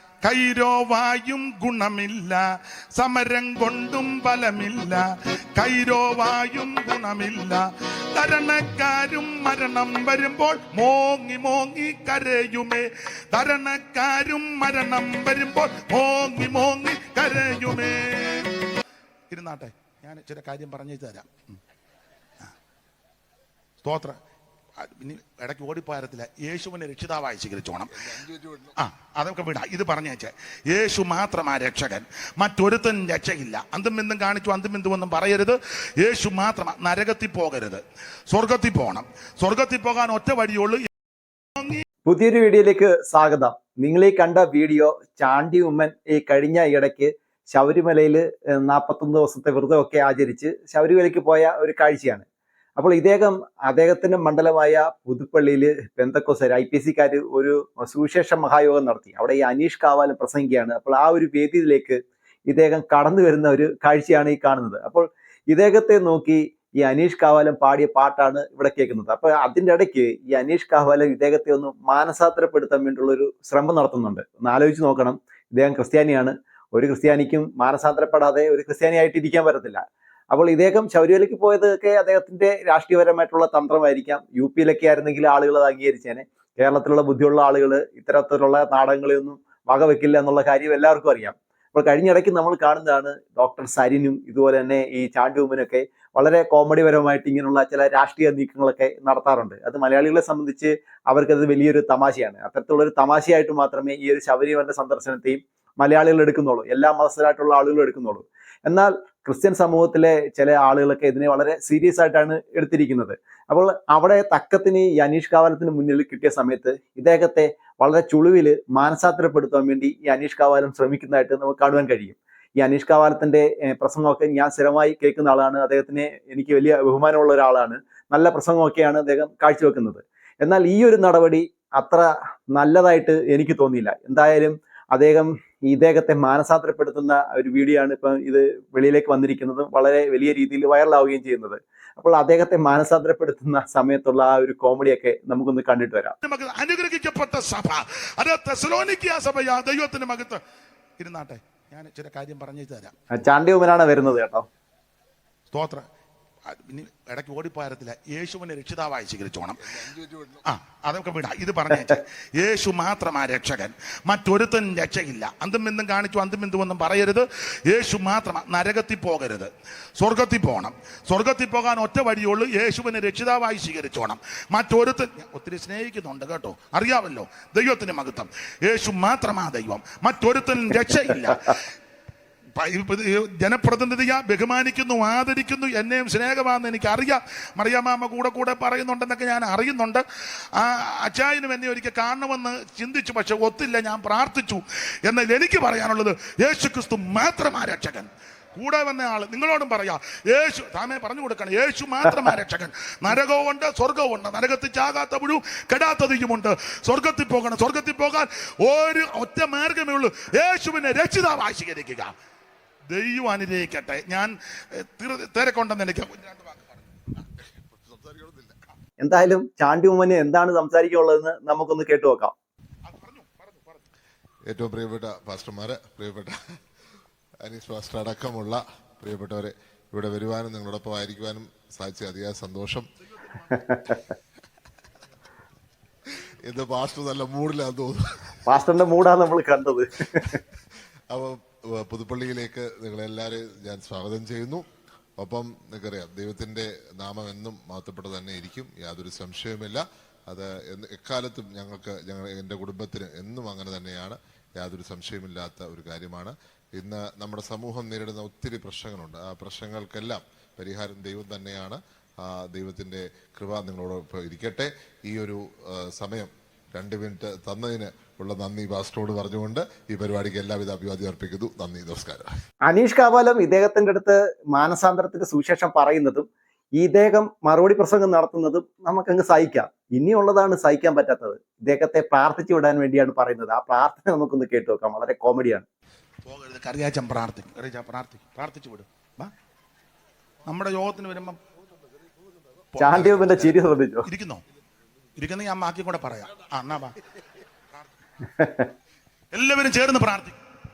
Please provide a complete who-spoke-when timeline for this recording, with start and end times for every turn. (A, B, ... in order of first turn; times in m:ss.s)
0:00.2-0:02.4 A
0:02.9-0:18.5 A
0:19.3-0:21.6 A
0:23.8-0:24.2 A
0:24.8-0:28.1 A
0:28.1-0:28.7 B
0:28.8-0:40.9 A
0:42.1-0:52.2 C
0:52.8-2:26.2 C
2:26.2-2:30.4 A
2:31.0-2:32.9 A
2:33.1-2:34.4 C
2:35.5-2:35.8 A
2:36.5-2:39.8 A
2:39.8-2:40.4 B
2:40.4-3:01.6 A
3:02.6-3:10.0 A
3:10.6-3:32.1 A
3:32.9-3:37.2 A
3:37.7-3:38.6 B
3:39.0-3:42.3 C
3:42.8-3:43.8 A
3:44.5-3:46.4 B
3:47.4-3:52.9 B
3:53.5-3:54.0 C
3:56.5-3:58.4 B
3:58.5-4:00.4 C
4:01.1-4:04.6 B
4:05.2-4:32.3 B
4:32.7-4:36.2 C
4:36.8-4:45.7 C
4:46.2-4:49.3 A
4:50.5-4:51.4 A
4:52.7-4:54.4 A
4:52.8-4:54.1 C
4:55.2-4:57.0 A
4:58.4-4:58.7 C
4:59.3-5:00.4 A